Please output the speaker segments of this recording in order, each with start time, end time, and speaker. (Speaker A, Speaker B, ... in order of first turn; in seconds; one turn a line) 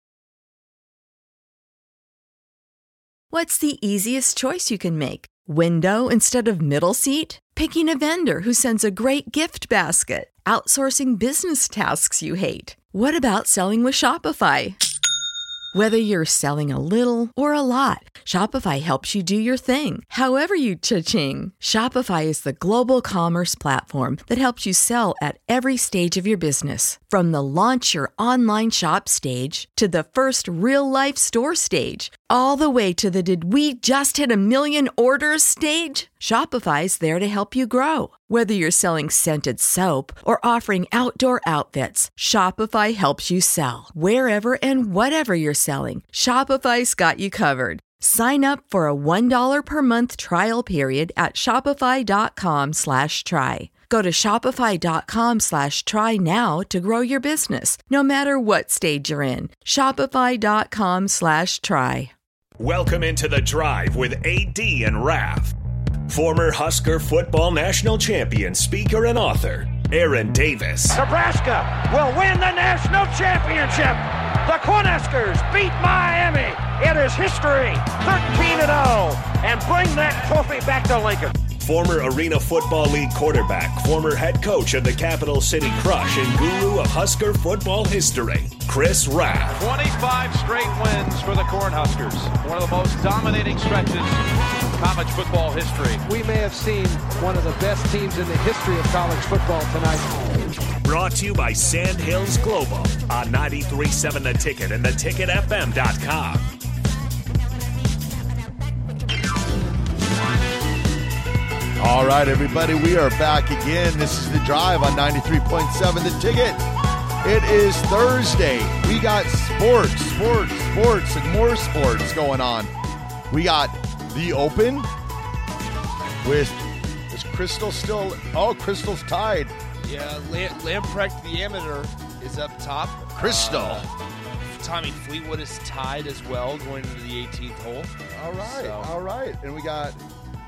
Speaker A: 3.3-14.8
Speaker A: 15.7-62.1
Speaker B: 62.6-65.5
Speaker B: 66.1-71.0
Speaker C: 70.9-81.3
Speaker B: 81.5-89.7
Speaker D: 89.6-94.1
Speaker D: 94.8-96.0
Speaker E: 96.0-100.1
Speaker B: 100.8-106.5
Speaker F: 111.8-116.6
Speaker F: 117.2-122.7
Speaker F: 123.3-124.9
Speaker F: 126.2-129.5
Speaker G: 129.8-133.9
Speaker F: 133.1-133.9
Speaker G: 134.5-138.9
Speaker F: 138.1-140.0